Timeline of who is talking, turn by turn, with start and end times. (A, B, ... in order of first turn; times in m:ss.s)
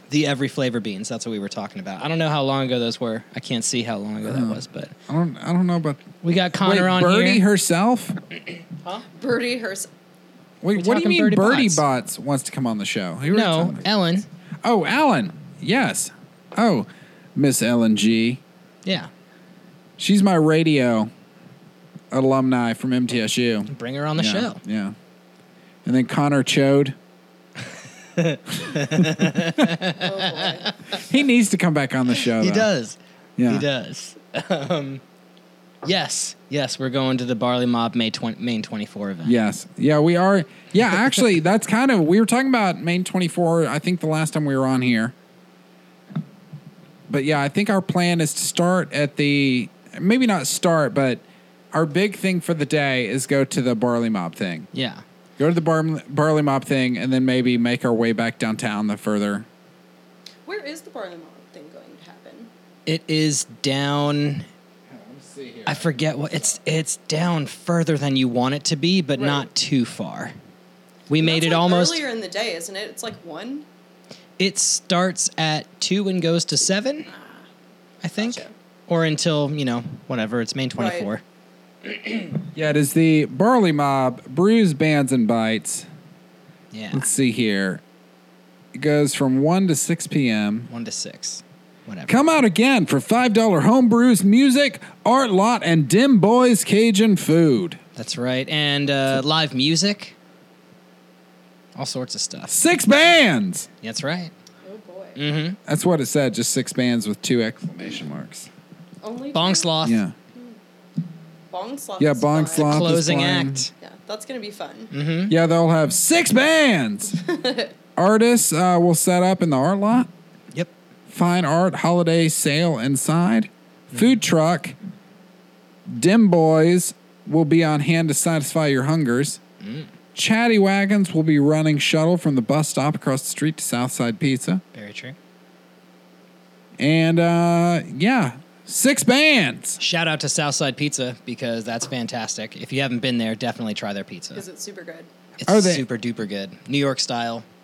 0:00.1-0:04.9 A
0:04.2-0:08.2 B
0:06.2-0:07.4 A
0:09.2-0:09.9 C
0:10.6-0:13.9 B
0:10.8-0:11.8 A
0:13.3-0:14.3 A
0:14.6-0:18.4 B
0:18.8-0:19.1 A
0:20.0-0:21.1 B
0:22.1-0:25.0 B
0:23.7-0:24.6 A
0:25.8-0:27.0 B
0:28.2-0:31.0 A
0:29.0-0:29.2 B
0:29.9-0:30.7 C
0:31.0-0:32.7 B
0:32.1-0:35.0 A
0:33.4-0:33.7 B
0:35.8-0:39.4 A
0:39.2-0:45.2 B
0:40.8-0:41.2 A
0:47.1-0:54.7 B
0:54.7-0:55.0 A
0:55.4-0:59.5 B
1:00.5-1:02.5 C
1:02.9-1:04.5 A
1:04.9-1:06.6 B
1:05.7-1:10.4 A
1:09.2-1:09.5 C
1:11.1-1:12.0 A
1:11.2-1:13.7 C
1:14.4-1:17.1 A
1:17.1-1:17.5 C
1:18.0-1:21.2 A
1:18.2-1:18.5 C
1:20.8-1:21.1 C
1:21.9-1:22.3 A
1:22.5-1:25.9 B
1:26.7-1:27.1 A
1:26.9-1:27.8 B
1:28.7-1:30.7 B
1:30.7-1:32.3 A
1:32.1-1:37.8 B
1:38.0-1:40.2 A
1:41.8-1:42.6 A
1:42.5-1:43.7 B
1:43.8-1:44.3 A
1:44.6-1:45.2 C
1:45.2-1:45.6 A
1:45.7-1:48.5 B
1:49.0-1:49.8 C
1:49.3-1:50.0 A
1:49.8-1:50.1 B
1:51.5-1:53.0 C
1:52.0-1:53.7 B
1:52.5-1:53.7 A
1:53.8-1:54.9 C
1:54.9-1:55.3 A
1:55.3-1:57.2 B
1:57.2-1:57.7 C
1:58.0-2:00.1 B
2:01.1-2:04.8 B
2:05.9-2:09.4 B
2:09.6-2:09.9 A
2:10.2-2:14.6 B
2:14.7-2:15.2 A
2:16.8-2:19.8 B
2:19.8-2:24.5 A
2:24.4-2:25.1 C
2:25.4-2:27.4 A
2:25.5-2:25.8 B